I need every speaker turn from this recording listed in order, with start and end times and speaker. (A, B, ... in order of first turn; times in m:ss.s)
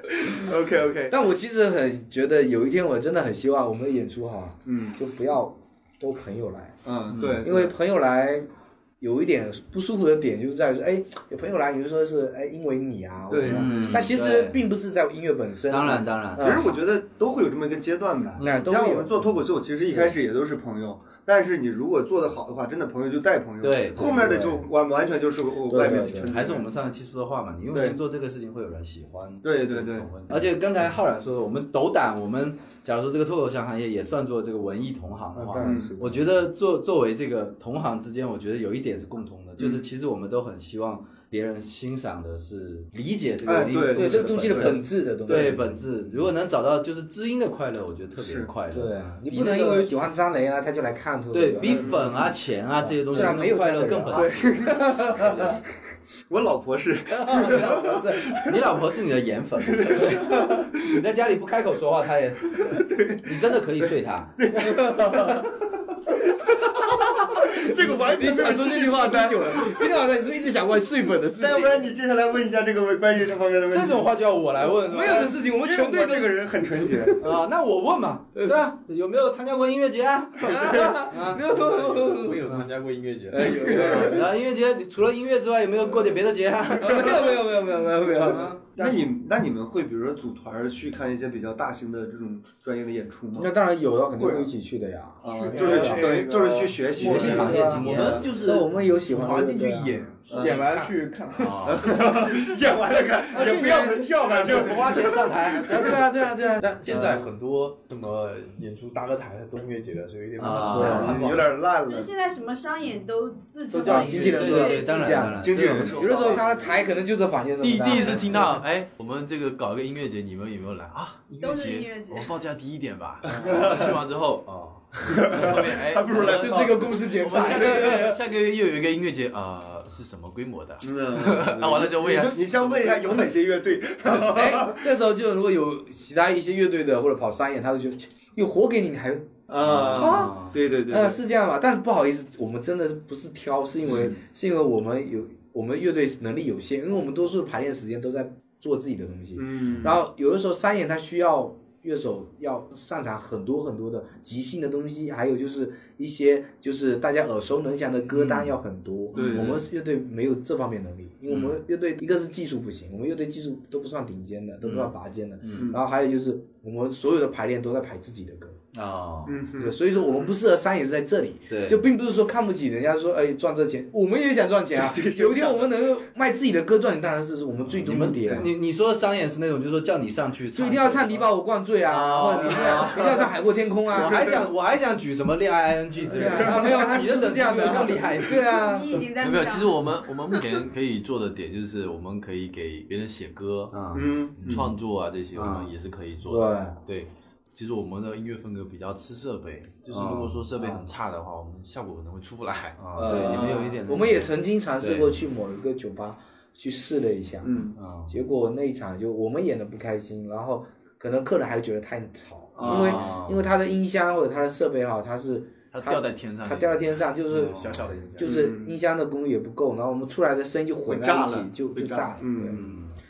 0:00.2-0:01.2 A
0:01.1-0:06.8 B
0:04.6-0:05.0 A
0:06.8-0:07.7 A
0:07.1-0:07.5 C
0:07.4-0:08.5 B
0:09.0-0:16.8 B
0:13.3-0:14.1 A
0:13.4-0:14.7 C
0:15.7-0:16.6 C
0:16.4-0:26.7 A
0:18.4-0:19.3 B
0:19.8-0:20.1 B
0:23.6-0:24.5 C
0:24.0-0:24.6 B
0:25.7-0:26.4 B
0:26.2-0:49.9 C
0:27.7-0:28.0 A
0:29.4-0:30.1 A
0:35.3-0:36.3 B
0:35.6-0:35.9 A
0:39.6-0:39.8 A
0:43.4-0:45.5 A
0:43.9-0:45.9 B
0:48.2-0:48.5 A
0:48.7-0:52.2 B
0:51.3-0:55.6 C
0:51.6-0:52.3 A
0:52.8-0:55.4 B
0:54.1-0:55.6 A
0:56.3-0:58.6 A
0:57.1-0:58.4 B
0:58.4-1:04.4 C
0:59.8-1:00.7 A
1:02.6-1:05.6 A
1:04.6-1:05.2 B
1:06.4-1:09.9 A
1:07.4-1:11.9 B
1:11.4-1:14.1 A
1:13.7-1:15.4 C
1:14.8-1:16.4 B
1:15.5-1:17.2 A
1:17.2-1:21.5 C
1:20.4-1:22.5 B
1:21.5-1:24.0 D
1:23.3-1:24.3 B
1:23.5-1:24.2 A
1:23.6-1:27.4 C
1:26.8-1:28.7 B
1:28.0-1:28.8 C
1:28.7-1:33.5 A
1:33.3-1:40.0 B
1:35.2-1:38.2 A
1:35.3-1:36.7 E
1:36.9-1:38.3 C
1:37.3-1:41.0 D
1:40.3-1:40.6 A
1:40.3-1:41.6 E
1:41.4-1:41.9 C
1:41.6-1:45.6 A
1:43.3-1:44.1 B
1:44.3-1:46.0 C
1:45.6-1:46.7 B
1:46.4-1:51.4 D
1:46.9-1:47.3 C
1:50.4-1:51.3 C
1:50.4-1:52.1 A
1:50.7-1:51.2 B
1:51.8-1:55.3 F
1:53.7-1:56.4 C
1:53.8-1:58.6 B
1:55.4-1:56.4 A
1:57.6-2:13.3 D
2:01.4-2:02.3 F
2:03.2-2:04.0 A
2:05.0-2:08.0 A
2:06.2-2:08.2 B
2:10.8-2:14.8 A
2:14.0-2:19.3 B
2:19.5-2:21.2 A
2:19.6-2:20.6 C
2:19.9-2:48.6 B
2:29.3-2:30.0 A
2:38.1-2:38.5 C
2:39.1-2:39.6 A
2:39.1-2:39.6 C
2:41.3-2:41.6 C
2:44.6-2:44.9 C
2:45.4-2:45.7 C
2:45.6-2:45.8 A
2:48.7-2:49.4 C
2:49.2-2:50.1 A
2:49.6-2:58.5 B
2:51.5-2:51.8 C
2:54.7-2:55.9 A
2:57.8-3:01.3 C
2:58.0-2:58.5 A
3:00.5-3:04.2 B
3:01.8-3:03.2 C
3:02.4-3:03.3 A
3:03.9-3:08.4 C
3:04.0-3:04.4 A
3:06.1-3:09.0 B
3:06.2-3:06.7 A
3:08.4-3:09.9 F
3:09.2-3:13.7 D
3:13.7-3:14.6 C
3:13.9-3:14.6 A
3:14.4-3:22.8 D
3:15.3-3:15.7 C
3:16.3-3:16.8 B
3:19.9-3:20.8 C
3:22.8-3:25.2 C
3:23.0-3:42.6 B
3:23.0-3:23.8 A
3:27.4-3:27.7 A
3:27.8-3:28.1 C
3:32.5-3:33.1 A
3:32.6-3:33.5 C
3:35.7-3:38.3 D
3:37.3-3:37.9 C
3:38.2-3:38.8 A
3:40.8-3:42.7 A
3:42.5-3:43.0 C